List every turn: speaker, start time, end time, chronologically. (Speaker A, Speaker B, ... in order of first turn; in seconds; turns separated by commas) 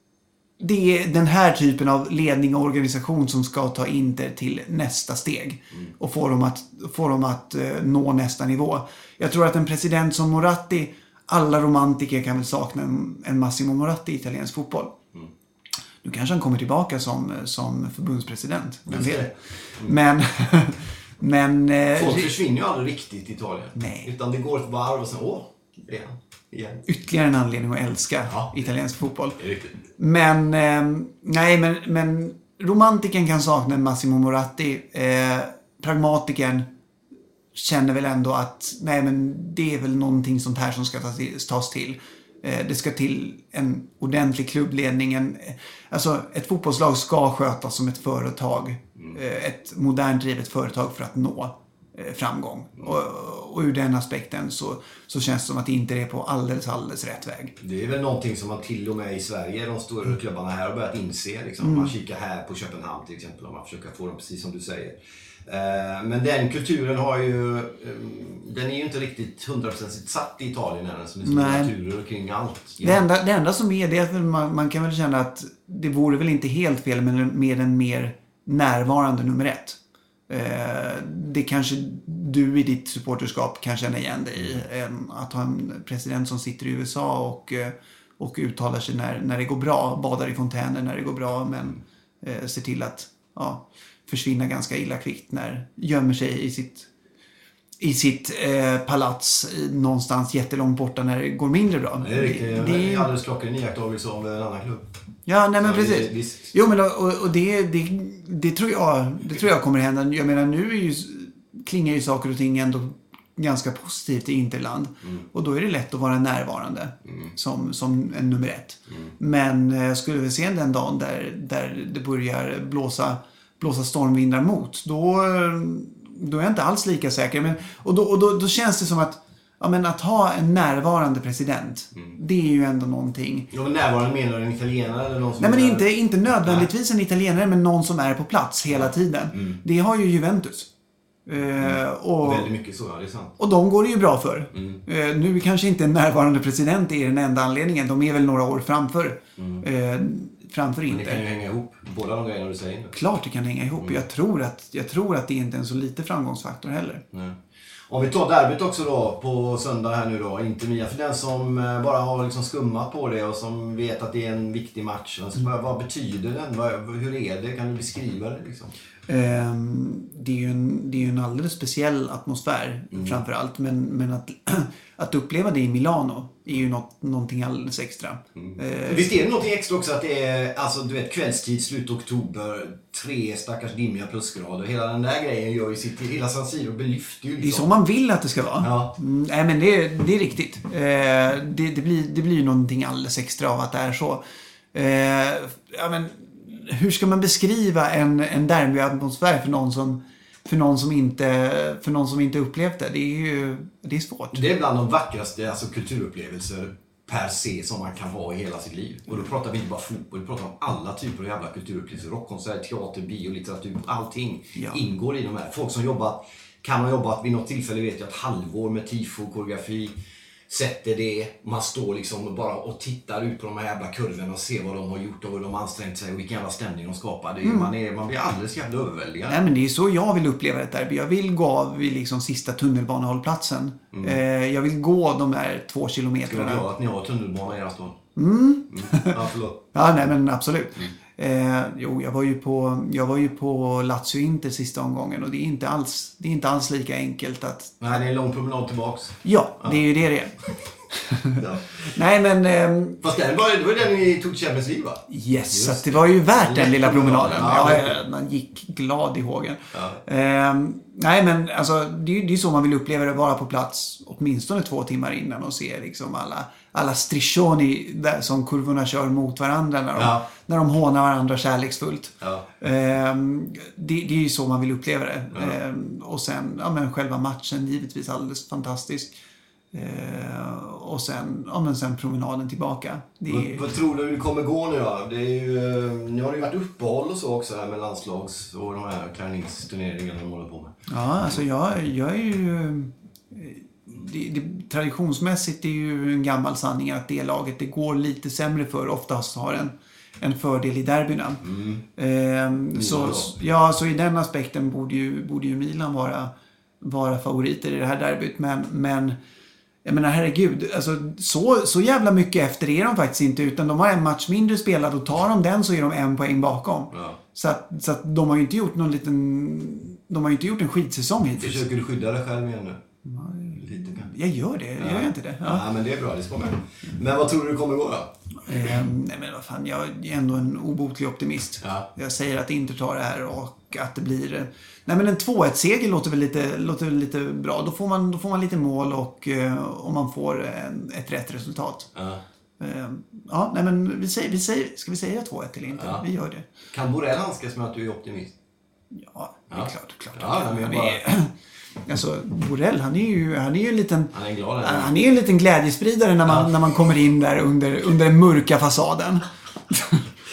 Speaker A: 0.6-14.9, Speaker A: 16.0-22.4, Speaker B: 18.9-19.9, Speaker B: 21.9-26.8, Speaker A: 23.7-24.1, Speaker A: 26.9-29.4, Speaker B: 28.3-28.5, Speaker B: 29.4-29.8, Speaker A: 30.0-36.7, Speaker A: 37.5-57.5, Speaker B: 57.6-73.0, Speaker A: 61.6-61.9, Speaker A: 71.2-71.7, Speaker A: 72.8-79.8, Speaker A: 80.3-96.9, Speaker A: 97.8-103.1, Speaker B: 102.0-104.9, Speaker A: 105.2-133.5, Speaker B: 105.6-106.5, Speaker B: 117.0-117.3, Speaker B: 118.9-119.1, Speaker B: 133.5-135.9, Speaker A: 135.4-140.7, Speaker B: 136.4-136.7, Speaker B: 138.7-139.6, Speaker A: 141.3-142.5, Speaker B: 141.6-143.3, Speaker A: 143.4-151.2, Speaker B: 144.5-144.8, Speaker B: 149.4-149.6, Speaker B: 150.9-152.9, Speaker A: 152.9-157.0, Speaker B: 157.1-168.7, Speaker A: 169.1-179.1, Speaker B: 172.9-173.2, Speaker B: 178.3-187.7, Speaker A: 187.4-194.2, Speaker B: 188.6-188.9, Speaker A: 194.7-204.4, Speaker B: 204.3-219.9, Speaker B: 220.5-229.4, Speaker A: 227.4-227.7, Speaker A: 229.3-236.7, Speaker B: 233.9-234.2, Speaker B: 236.2-238.0, Speaker A: 238.2-247.8, Speaker B: 238.7-239.6, Speaker B: 247.8-249.8, Speaker A: 249.2-250.4, Speaker A: 250.9-253.0, Speaker B: 251.3-251.8, Speaker B: 253.0-258.0, Speaker A: 255.1-279.2, Speaker B: 259.7-260.0, Speaker B: 269.9-270.2, Speaker B: 272.2-272.4, Speaker A: 279.7-283.7, Speaker B: 283.3-291.4, Speaker A: 290.9-301.4, Speaker B: 301.4-301.8, Speaker A: 301.9-309.2, Speaker B: 302.7-303.3, Speaker A: 309.8-321.6, Speaker B: 316.9-317.2, Speaker B: 321.4-322.8, Speaker A: 323.0-325.6, Speaker B: 323.6-324.1, Speaker B: 324.8-328.1, Speaker A: 328.4-341.9, Speaker B: 331.6-331.9, Speaker B: 341.9-342.2, Speaker A: 342.6-346.4, Speaker B: 345.7-346.0, Speaker B: 346.7-348.3, Speaker A: 348.9-351.3, Speaker B: 349.5-351.0, Speaker A: 351.8-360.0, Speaker B: 354.1-354.9